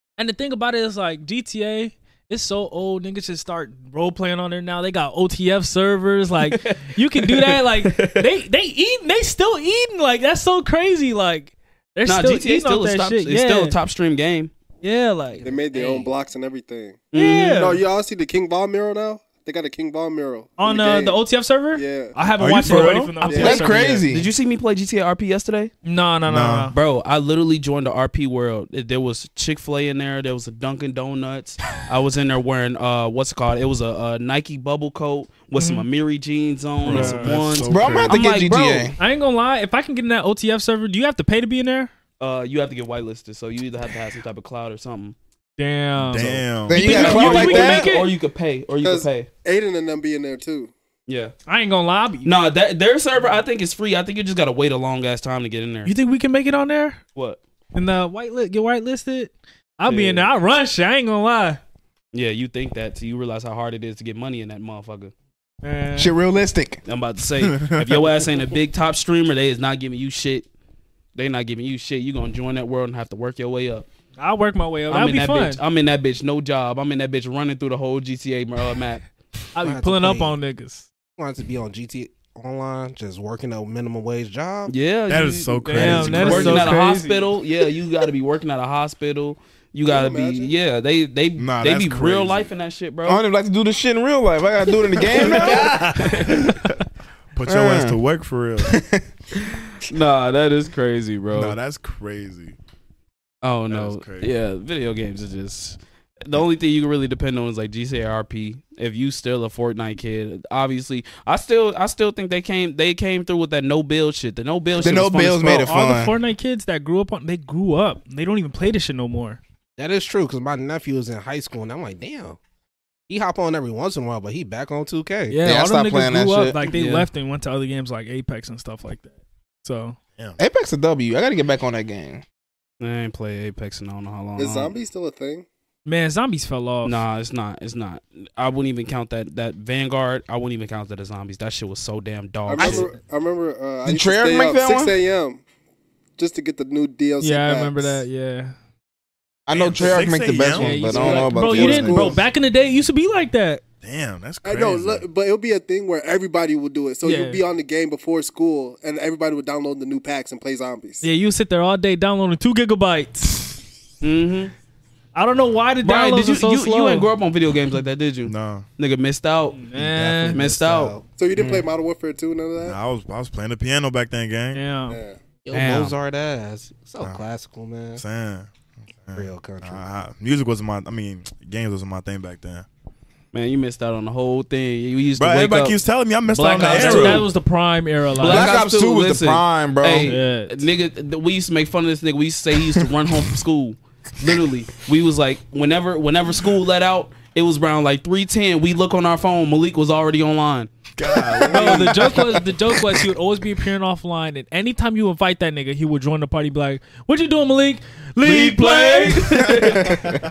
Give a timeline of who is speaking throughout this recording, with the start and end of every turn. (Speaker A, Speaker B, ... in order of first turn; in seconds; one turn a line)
Speaker A: 0.2-13.8
Speaker B: 6.4-8.3
Speaker B: 12.1-14.5
Speaker A: 14.8-15.5
Speaker C: 15.4-21.2
Speaker D: 15.7-16.0
Speaker B: 17.1-17.6
Speaker A: 17.1-17.8
Speaker A: 20.6-24.1
Speaker C: 21.7-22.2
Speaker E: 22.4-23.2
Speaker C: 23.2-23.6
Speaker F: 23.3-24.3
Speaker B: 23.4-25.7
Speaker A: 25.8-26.8
Speaker E: 26.3-26.7
Speaker B: 26.7-38.9
Speaker A: 35.6-35.9
Speaker E: 36.8-38.2
Speaker A: 36.9-37.3
Speaker F: 37.7-39.0
Speaker A: 39.0-41.9
Speaker B: 42.2-45.2
Speaker A: 45.6-48.1
Speaker E: 46.0-47.0
Speaker F: 46.7-47.9
Speaker B: 46.8-49.3
Speaker C: 48.8-50.7
Speaker B: 51.1-51.3
Speaker A: 51.5-52.3
Speaker B: 52.2-55.9
Speaker A: 55.9-57.0
Speaker B: 57.2-57.4
Speaker A: 57.7-61.6
Speaker B: 59.9-60.3
Speaker B: 62.1-65.1
Speaker A: 65.6-66.1
Speaker F: 66.0-66.8
Speaker B: 66.9-70.5
Speaker E: 67.4-68.1
Speaker B: 71.2-73.9
Speaker A: 74.2-75.6
Speaker B: 74.9-79.0
Speaker A: 79.5-80.9
Speaker D: 79.6-80.4
Speaker D: 81.2-84.7
Speaker B: 84.7-93.2
Speaker E: 85.1-86.8
Speaker A: 85.7-87.3
Speaker C: 89.9-90.5
Speaker E: 91.4-92.5
Speaker F: 93.1-96.0
Speaker E: 95.1-96.6
Speaker A: 95.2-96.3
Speaker B: 96.0-96.4
Speaker E: 97.3-98.8
Speaker F: 97.5-98.0
Speaker F: 98.7-99.0
Speaker B: 99.9-101.6
Speaker E: 101.3-102.6
Speaker B: 103.4-115.7
Speaker E: 103.7-104.3
Speaker F: 114.8-116.2
Speaker A: 115.4-119.4
Speaker D: 119.8-122.4
Speaker D: 123.1-125.4
Speaker A: 125.3-129.1
Speaker F: 125.4-126.6
Speaker B: 126.6-127.1
Speaker A: 129.6-130.0
Speaker F: 130.4-132.2
Speaker B: 132.8-134.7
Speaker C: 134.4-135.5
Speaker A: 135.9-137.0
Speaker B: 136.8-142.9
Speaker C: 142.5-145.4
Speaker F: 143.9-144.9
Speaker C: 146.2-148.0
Speaker A: 147.2-148.6
Speaker F: 149.5-152.2
Speaker E: 149.5-150.9
Speaker A: 150.5-153.6
Speaker C: 150.9-152.2
Speaker E: 153.8-155.0
Speaker C: 154.4-161.1
Speaker A: 157.0-157.4
Speaker A: 161.0-163.6
Speaker B: 164.0-164.5
Speaker A: 165.2-167.1
Speaker B: 165.8-169.6
Speaker E: 168.3-168.7
Speaker A: 169.5-170.4
Speaker D: 169.7-171.1
Speaker B: 170.3-170.9
Speaker C: 171.2-172.8
Speaker F: 171.3-171.7
Speaker E: 172.6-174.6
Speaker A: 174.5-175.0
Speaker C: 174.9-175.2
Speaker D: 175.4-178.0
Speaker B: 175.5-175.9
Speaker E: 178.0-178.5
Speaker E: 179.1-182.7
Speaker D: 179.1-179.8
Speaker B: 183.3-185.8
Speaker E: 185.2-187.3
Speaker B: 186.3-187.3
Speaker A: 186.4-188.6
Speaker B: 188.2-200.7
Speaker F: 188.2-190.2
Speaker A: 190.1-190.6
Speaker E: 201.0-202.5
Speaker B: 201.3-201.9
Speaker A: 201.5-209.6
Speaker B: 208.2-210.0
Speaker F: 209.9-210.2